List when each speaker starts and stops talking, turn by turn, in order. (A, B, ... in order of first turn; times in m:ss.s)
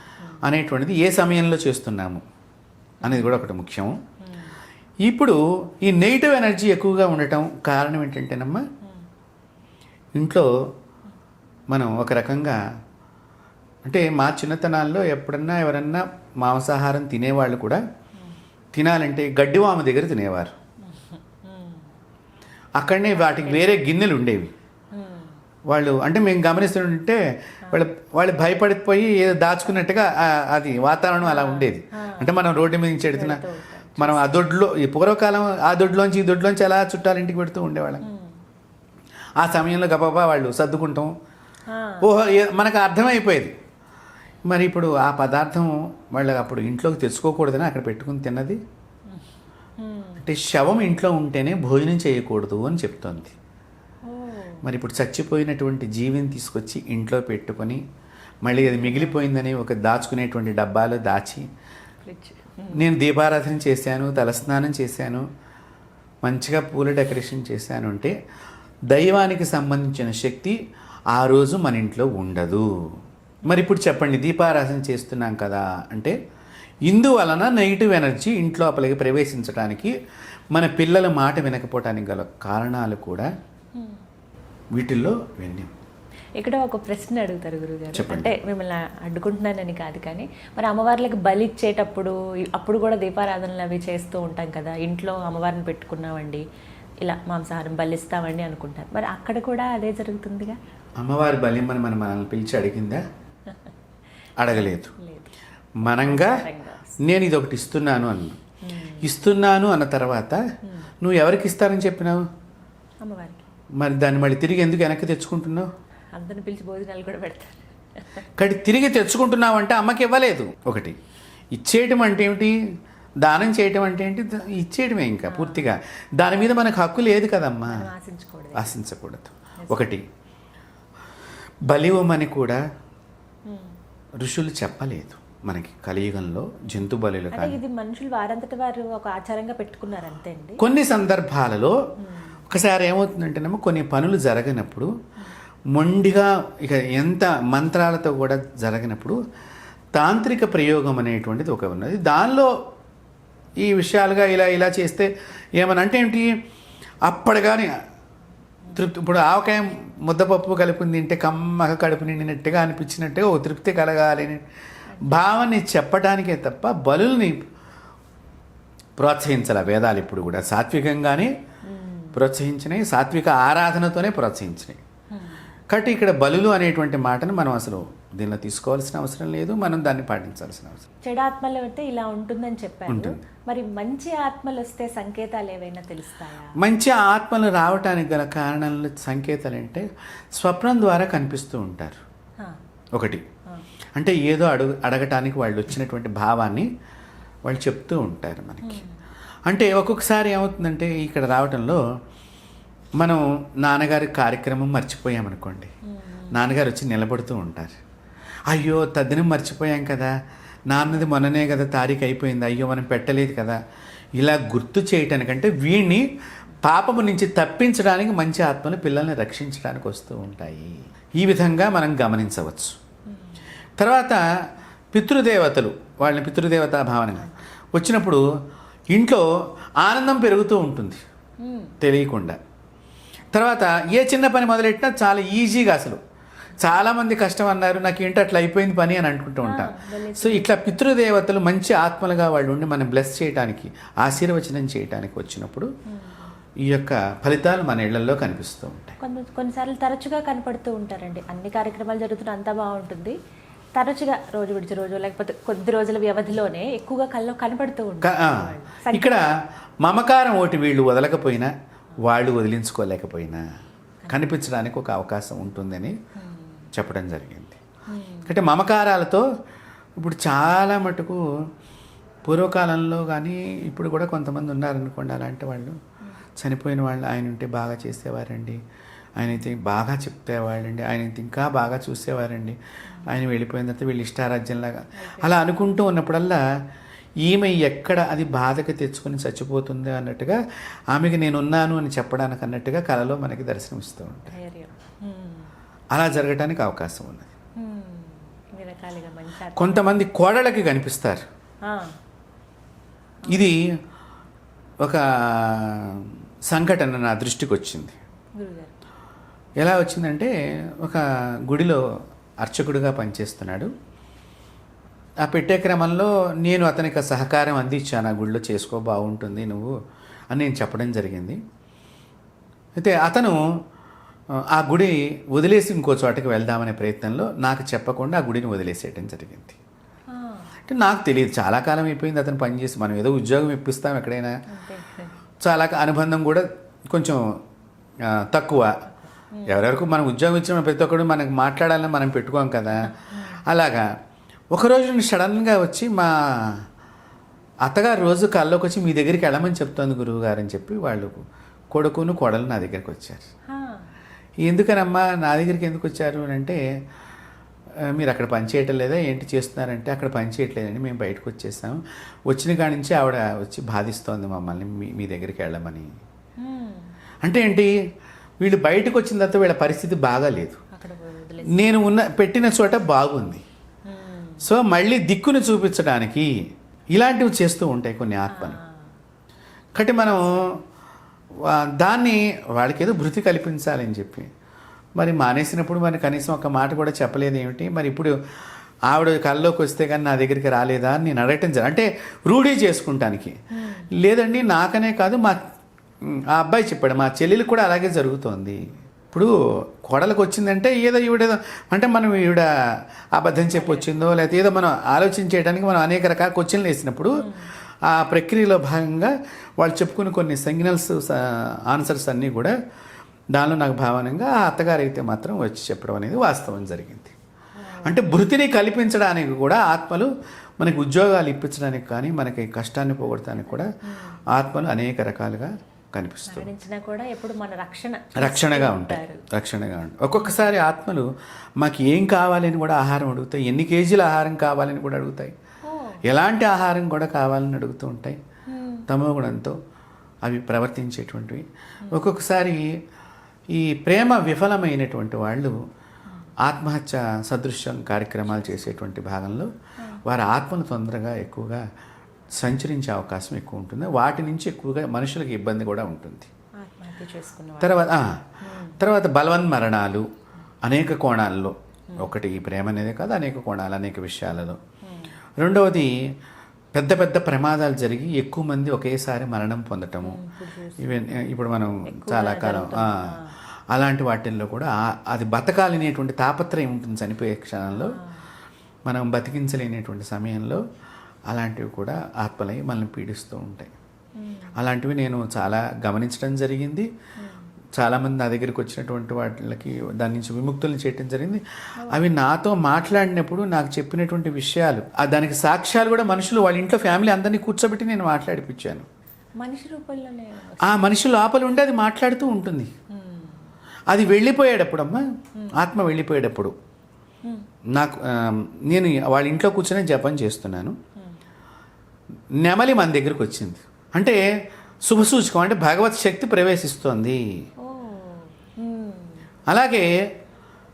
0:00.4-0:02.2 A
0:03.0-0:03.4 B
0:03.0-0:03.9 A
0:04.2-0:04.6 B
0:05.0-0:08.6 A
0:10.2-0:10.5 A
0:11.7-0:12.6 A
0:13.8-0:17.8 A
0:18.7-0:20.5 A
0:20.8-0:21.9 B
0:22.8-0:24.5 A
0:23.1-0:23.7 B
0:24.9-0:25.3 B
0:25.7-0:33.4 A
0:31.2-0:32.3 B
0:33.1-0:34.4 B
0:34.0-0:38.0 A
0:38.0-0:38.4 B
0:39.4-0:41.1 A
0:41.7-0:42.0 B
0:42.0-0:43.5 A
0:44.4-0:48.6 A
0:49.8-0:50.2 B
0:50.2-0:53.3 A
0:54.0-0:54.6 B
0:54.6-0:57.8 A
0:58.4-1:01.4 A
0:58.6-0:59.2 B
1:02.0-1:02.8 B
1:02.7-1:05.2 A
1:06.2-1:08.1 A
1:08.9-1:10.6 A
1:11.1-1:12.7 A
1:13.4-1:16.2 A
1:16.9-1:19.9 A
1:20.5-1:23.3 A
1:23.8-1:24.0 B
1:24.7-1:25.7 A
1:26.4-1:36.4 B
1:27.9-1:28.4 A
1:37.0-1:40.6 B
1:41.0-1:43.0 A
1:44.4-1:44.9 A
1:44.5-1:45.3 B
1:45.8-1:46.4 A
1:45.8-1:47.0 B
1:47.0-1:48.4 A
1:48.6-1:49.1 B
1:49.0-1:50.4 A
1:51.0-1:52.2 A
1:53.0-1:53.4 B
1:53.8-1:55.7 A
1:56.1-1:57.6 B
1:58.4-2:01.0 A
2:01.5-2:02.6 A
2:03.2-2:07.9 A
2:05.3-2:05.6 B
2:07.7-2:08.8 B
2:08.5-2:10.0 A
2:09.6-2:09.8 B
2:11.7-2:12.6 A
2:13.5-2:13.7 B
2:14.2-2:17.6 A
2:17.3-2:20.6 B
2:20.6-2:21.8 A
2:22.0-2:22.4 B
2:22.5-2:24.9 A
2:25.7-2:29.2 A
2:29.9-2:32.5 A
2:33.6-2:36.3 A
2:37.0-2:37.7 A
2:38.7-2:44.4 A
2:45.0-2:47.4 A
2:49.0-2:51.3 A
2:51.6-2:52.2 B
2:52.1-2:54.8 A
2:55.1-2:55.4 B
2:55.7-3:00.8 A
3:01.0-3:06.6 B
3:02.9-3:03.2 A
3:06.6-3:12.0 A
3:12.9-3:13.2 A
3:14.0-3:16.7 A
3:17.4-3:18.8 A
3:18.6-3:19.0 B
3:19.5-3:21.8 A
3:23.0-3:25.7 A
3:25.9-3:26.3 B
3:26.3-3:27.8 A
3:28.5-3:30.1 A
3:30.7-3:33.6 A
3:34.2-3:36.1 A
3:36.6-3:42.8 A
3:43.8-3:44.2 A
3:44.9-3:48.2 A
3:48.9-3:49.2 A
3:49.8-3:51.0 A
3:51.4-3:51.8 B
3:51.8-3:52.4 A
3:53.3-3:56.0 A
3:56.6-4:05.7 A
3:59.4-4:00.6 B
4:05.9-4:06.3 B
4:06.6-4:09.0 A
4:09.0-4:13.2 B
4:13.7-4:19.2 B
4:18.0-4:19.3 A
4:19.8-4:23.4 A
4:24.1-4:26.0 A
4:26.2-4:26.5 B
4:26.7-4:27.6 A
4:27.9-4:28.4 B
4:28.2-4:29.2 A
4:30.0-4:31.2 A
4:32.2-4:35.8 A
4:36.4-4:38.6 A
4:39.2-4:46.4 A
4:45.0-4:45.3 B
4:47.2-4:50.4 A
4:50.9-4:54.3 A
4:54.3-4:55.5 B
4:55.9-4:57.3 A
4:57.6-5:00.0 B
4:59.5-5:01.2 A
5:01.6-5:01.9 B
5:03.3-5:03.6 A
5:04.8-5:08.0 A
5:08.4-5:08.7 B
5:09.6-5:11.8 A
5:12.4-5:13.7 A
5:15.2-5:19.7 A
5:20.3-5:21.4 A
5:22.8-5:23.4 A
5:24.3-5:29.6 A
5:30.1-5:30.5 B
5:30.7-5:34.4 A
5:34.5-5:35.1 B
5:35.4-5:37.4 A
5:38.0-5:38.8 A
5:39.0-5:39.5 B
5:39.5-5:42.9 A
5:42.8-5:43.4 B
5:43.5-5:43.9 A
5:44.5-5:46.6 A
5:47.6-5:53.2 A
5:53.5-5:53.8 B
5:54.4-5:56.6 A
5:57.8-6:05.9 A
6:06.4-6:06.9 B
6:07.2-6:07.7 A
6:08.4-6:10.6 A
6:10.7-6:11.8 B
6:11.5-6:13.4 A
6:13.8-6:14.5 B
6:14.4-6:16.4 A
6:16.9-6:18.6 A
6:18.3-6:18.8 B
6:19.8-6:20.6 A
6:21.4-6:24.3 A
6:25.0-6:28.2 A
6:28.9-6:33.4 A
6:33.5-6:33.9 B
6:33.9-6:35.4 A
6:36.0-6:42.5 A
6:43.1-6:47.3 A
6:43.5-6:43.9 B
6:47.2-6:47.5 B
6:47.8-6:52.5 A
6:53.3-6:57.1 A
6:57.6-6:58.1 B
6:57.8-7:03.7 A
7:03.8-7:04.2 B
7:04.3-7:06.5 A
7:06.3-7:09.2 B
7:08.1-7:11.1 A
7:10.2-7:10.4 B
7:11.6-7:15.3 A
7:15.6-7:16.0 B
7:16.0-7:18.2 A
7:18.5-7:18.8 B
7:18.9-7:19.6 A
7:20.2-7:22.8 A
7:23.5-7:25.6 A
7:26.4-7:29.5 A
7:30.0-7:31.6 A
7:32.3-7:36.3 A
7:36.6-7:37.8 B
7:37.6-7:38.2 A
7:38.4-7:38.8 B
7:38.8-7:40.1 A
7:40.6-7:44.6 A
7:44.8-7:45.1 B
7:45.4-7:46.0 A
7:46.7-7:50.2 A
7:50.0-7:51.2 B
7:50.8-7:53.2 A
7:51.8-7:53.3 B
7:53.7-7:58.0 A
7:57.7-7:58.2 B
7:58.8-8:00.6 A
8:01.3-8:03.7 A
8:04.2-8:04.5 B
8:04.6-8:06.9 A
8:07.2-8:07.4 B
8:07.8-8:18.9 A
8:11.8-8:12.0 B
8:19.4-8:20.9 B
8:20.6-8:22.7 A
8:22.9-8:23.5 B
8:23.9-8:25.0 A
8:25.6-8:26.5 A
8:27.7-8:30.8 A
8:32.4-8:34.2 A
8:34.8-8:37.2 A
8:37.6-8:39.2 B
8:39.5-8:39.9 A